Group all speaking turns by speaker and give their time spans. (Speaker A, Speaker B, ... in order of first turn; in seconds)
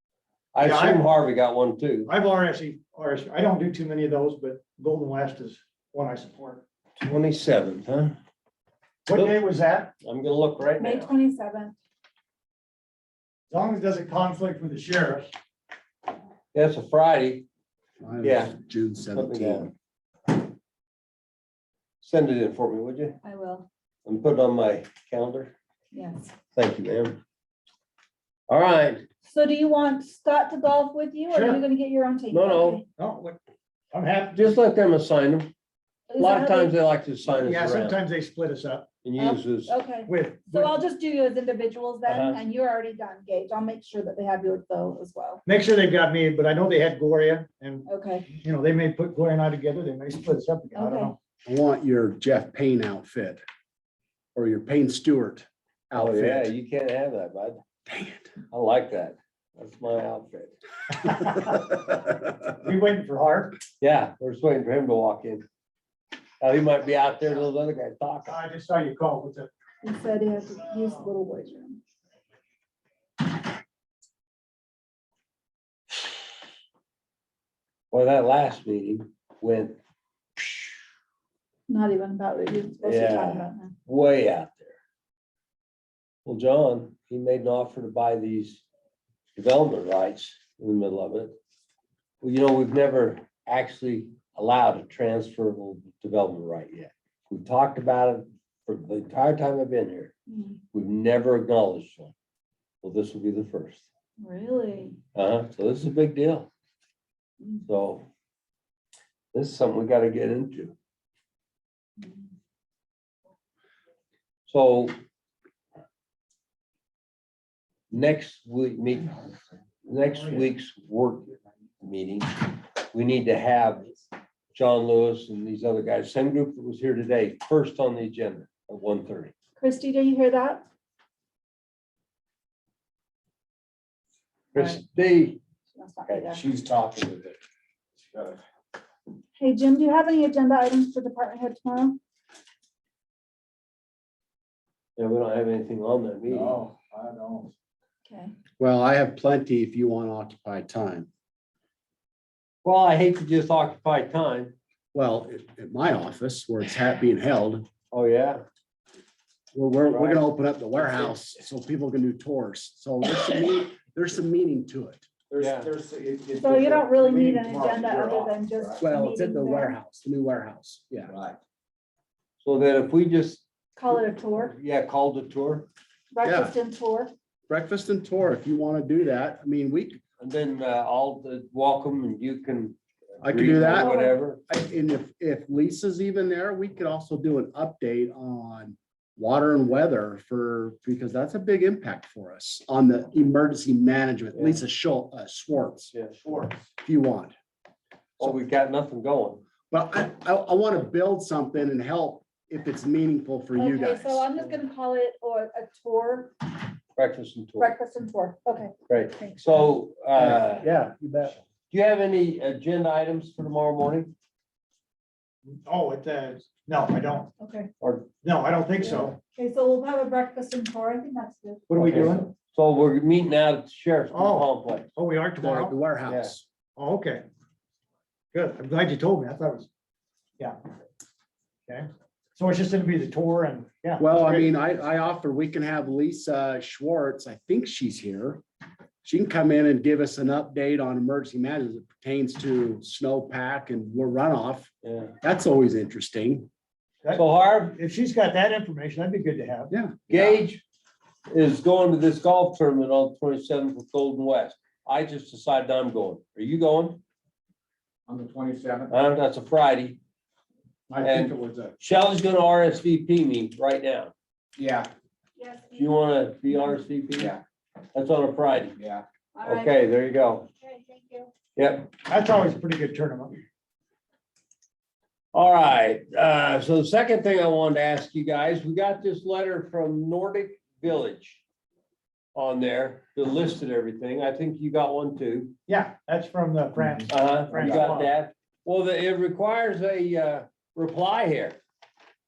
Speaker A: 0.5-2.1, 7.0-8.2, 10.0-11.1, 16.5-17.5, 18.2-18.6, 19.1-19.7, 22.0-23.2, 24.1-25.5, 26.6-27.2, 28.5-29.1, 32.3-32.8, 34.4-35.5, 36.2-38.0, 39.0-39.7, 42.1-42.4, 56.0-57.6, 58.5-61.5, 63.8-65.4, 66.4-68.4, 77.9-79.8, 82.8-84.8, 86.2-88.6, 89.3-91.3, 92.2-100.1, 100.7-102.1, 102.8-103.8, 105.1-106.5, 107.7-108.0, 109.3-110.8, 114.5-115.0, 117.9-119.3, 119.8-122.3, 122.9-123.9, 124.5-129.3, 134.5-135.4, 145.0-146.6, 152.6-154.6, 157.9-158.4, 159.8-160.3, 165.4-165.7, 172.4-173.4, 174.4-175.7, 180.2-184.4, 194.3-194.6, 198.2-199.4, 207.0-207.7, 208.9-210.7, 211.7-214.1, 217.8-218.1, 218.8-219.1, 221.8-224.9, 226.1-226.3, 244.8-245.1, 247.1-247.8, 250.1-250.6, 251.3-257.0, 258.9-260.0, 261.0-264.1, 265.8-267.4, 267.9-268.8, 269.4-270.5, 271.6-271.9, 275.3-281.4, 282.4-285.5, 287.1-291.6
Speaker B: 0.6-1.1, 2.1-6.6, 9.1-9.9, 13.5-15.3, 31.3-31.6, 33.0-33.4, 33.9-34.4, 37.4-38.9, 40.1-40.8, 45.5-51.2, 62.6-63.6, 68.3-69.5, 196.2-196.5, 215.5-217.3, 218.2-219.2, 221.7-222.3, 224.1-225.8, 226.8-227.2, 228.3-229.7, 231.7-234.5, 247.7-249.7, 272.1-273.4, 285.7-288.1
Speaker C: 10.8-11.8, 23.2-23.7, 25.9-26.3, 29.2-32.9, 36.1-36.7, 39.2-45.4, 47.9-48.3, 50.8-51.1, 69.8-71.8, 81.7-83.7, 100.3-100.6, 104.2-105.0, 107.4-107.7, 112.0-112.3, 129.6-130.7, 135.7-136.4, 139.4-142.0, 148.1-148.3, 166.4-169.8, 173.8-174.6, 176.1-177.1, 183.7-184.2, 203.6-206.5, 207.6-209.7, 217.4-217.7, 219.3-221.8, 265.4-266.0, 266.5-266.8, 269.4-269.8, 270.6-271.3
Speaker D: 18.0-19.7, 51.5-53.4, 54.4-56.5, 57.9-58.3, 148.6-151.1, 154.9-157.7, 159.5-165.1, 168.8-171.1, 176.2-176.5, 177.5-180.0, 183.2-195.9, 196.7-197.3, 199.7-204.3, 210.2-211.4, 225.4-226.4, 234.0-238.4, 239.0-246.5, 249.7-250.4
Speaker E: 136.1-137.4, 138.0-138.4, 146.3-147.5, 165.3-168.8, 171.1-171.4, 258.1-258.9, 260.9-261.7, 264.6-264.9, 267.2-267.4, 268.8-269.1